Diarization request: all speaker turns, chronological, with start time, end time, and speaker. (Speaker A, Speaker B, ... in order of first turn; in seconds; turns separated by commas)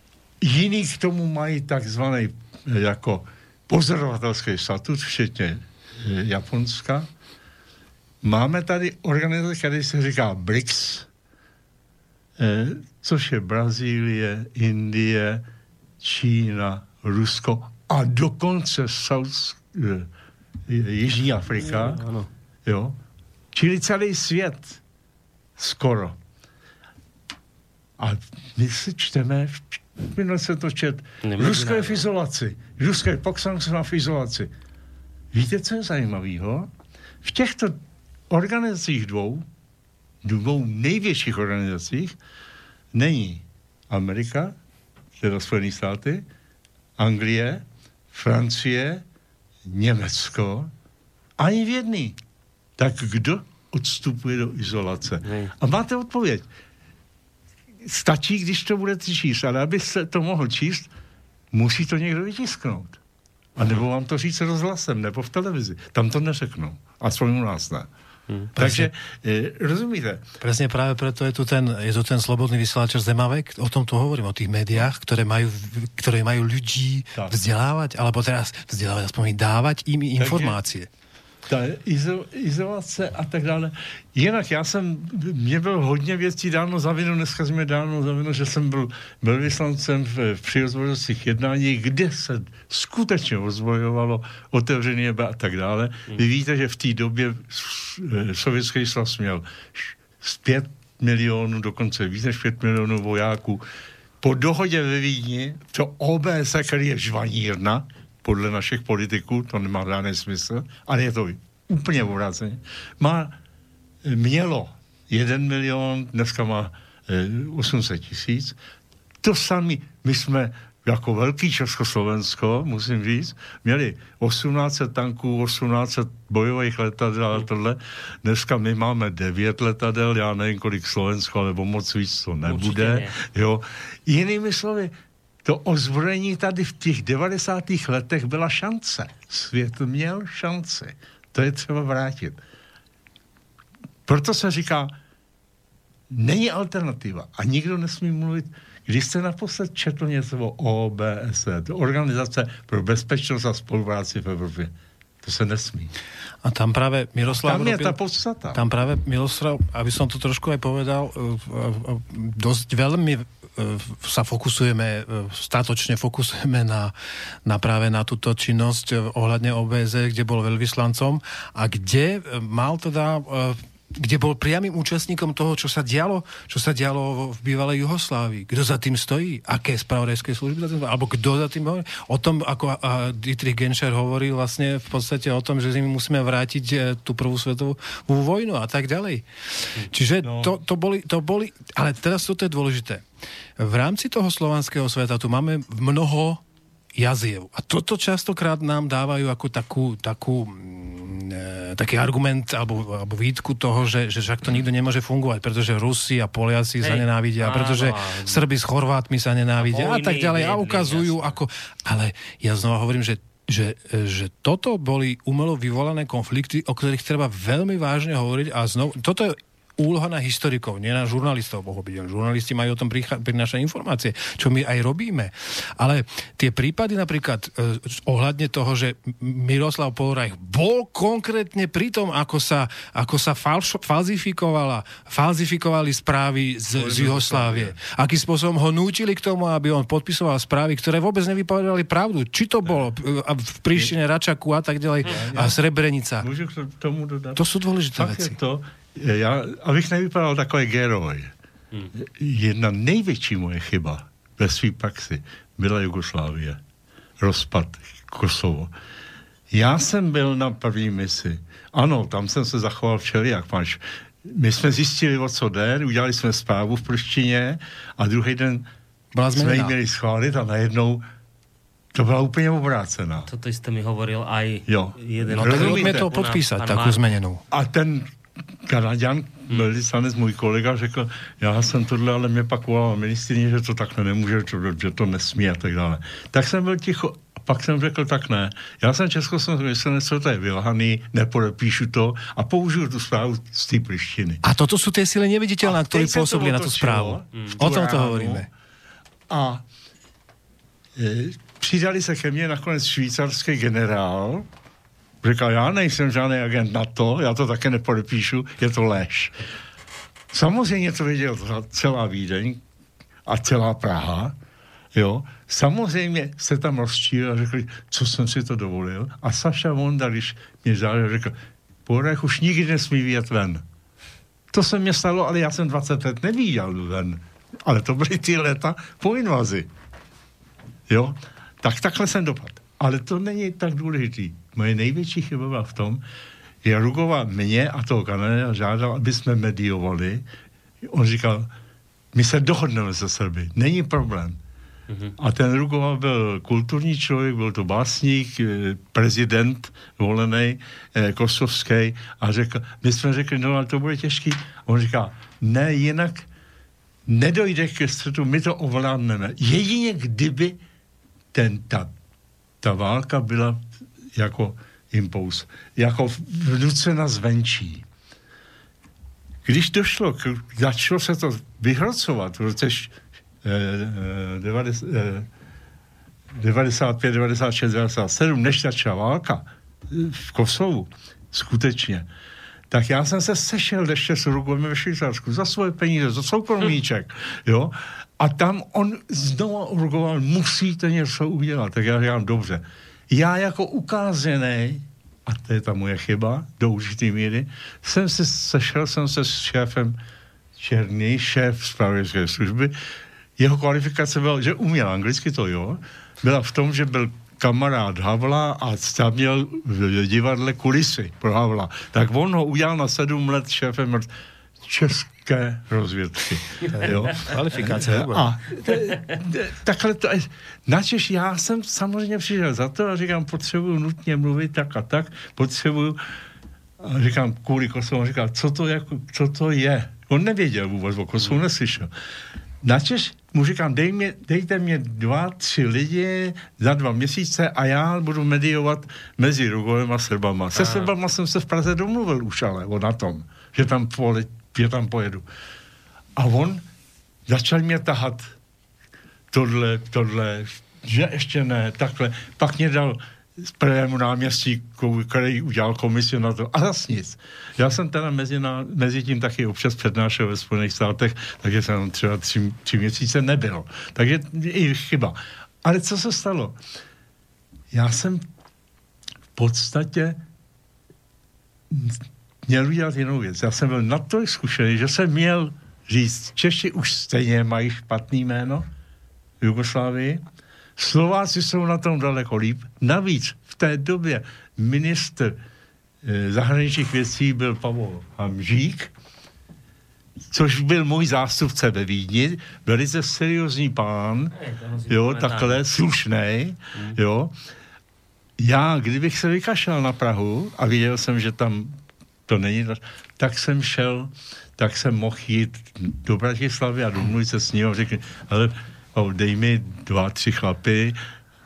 Speaker A: 0.4-7.1, Speaker A: 8.2-11.1, Speaker A: 12.4-15.4, Speaker A: 16.0-20.1, Speaker A: 20.7-22.0, Speaker B: 21.6-22.3, Speaker A: 22.7-23.0, Speaker A: 23.5-24.8, Speaker A: 25.6-26.2, Speaker A: 28.0-34.5, Speaker B: 31.2-32.0, Speaker A: 35.3-36.7, Speaker A: 37.2-37.8, Speaker A: 38.3-39.5, Speaker A: 40.2-42.2, Speaker A: 42.9-44.6, Speaker A: 45.2-46.2, Speaker A: 47.0-49.0, Speaker A: 49.7-50.7, Speaker A: 51.4-52.2, Speaker A: 52.8-56.5, Speaker B: 55.2-55.5, Speaker A: 57.9-60.9, Speaker A: 61.5-63.0, Speaker A: 63.6-67.9, Speaker C: 68.6-68.9, Speaker A: 68.6-70.2, Speaker C: 70.4-80.9, Speaker A: 80.2-80.6, Speaker A: 81.5-103.6, Speaker A: 104.2-113.4, Speaker A: 114.0-118.6, Speaker A: 119.2-134.9, Speaker B: 132.4-133.2, Speaker A: 135.4-142.4, Speaker A: 144.1-144.9, Speaker A: 146.1-154.7, Speaker A: 155.2-155.9, Speaker C: 156.4-158.0, Speaker A: 157.3-158.7, Speaker C: 158.5-166.9, Speaker C: 167.4-189.3, Speaker C: 189.8-193.0, Speaker A: 190.2-190.6, Speaker C: 193.6-196.4, Speaker C: 197.0-246.3, Speaker B: 206.8-208.4, Speaker B: 209.6-211.4, Speaker A: 236.8-237.8, Speaker A: 245.1-245.6, Speaker A: 246.2-251.3, Speaker C: 247.4-248.4, Speaker A: 252.0-256.6, Speaker A: 257.2-258.7, Speaker A: 259.5-268.7, Speaker C: 269.1-269.8, Speaker A: 269.3-271.1, Speaker A: 271.9-273.3, Speaker B: 273.3-277.1, Speaker A: 274.7-276.1, Speaker C: 275.4-277.4, Speaker A: 277.5-278.1, Speaker A: 278.7-294.4, Speaker C: 294.4-298.5, Speaker A: 295.6-298.5, Speaker B: 297.4-297.6, Speaker A: 299.3-299.6, Speaker A: 301.0-304.5, Speaker A: 305.2-309.4, Speaker A: 310.3-312.6, Speaker A: 313.3-314.4, Speaker A: 314.9-323.6, Speaker A: 324.5-329.7, Speaker A: 330.9-336.0, Speaker A: 336.6-340.2, Speaker A: 340.9-341.5, Speaker A: 342.1-344.4, Speaker A: 345.2-356.3, Speaker A: 357.1-360.6, Speaker A: 361.3-361.9, Speaker A: 362.6-367.9, Speaker A: 369.4-375.3, Speaker A: 376.4-382.1, Speaker A: 382.7-400.0, Speaker A: 400.6-402.8, Speaker A: 403.4-414.1, Speaker A: 414.6-426.0, Speaker C: 416.7-418.3, Speaker A: 426.8-431.9, Speaker A: 432.6-445.2, Speaker B: 440.6-440.9, Speaker A: 446.2-446.6, Speaker A: 447.3-448.3, Speaker A: 449.3-466.6, Speaker A: 467.7-468.3, Speaker A: 469.4-470.2, Speaker A: 471.7-478.7, Speaker A: 479.4-480.2, Speaker A: 480.8-485.4, Speaker A: 486.0-488.9, Speaker A: 490.3-494.3, Speaker B: 494.3-495.6, Speaker A: 494.9-497.3, Speaker A: 498.4-501.8, Speaker A: 502.3-511.0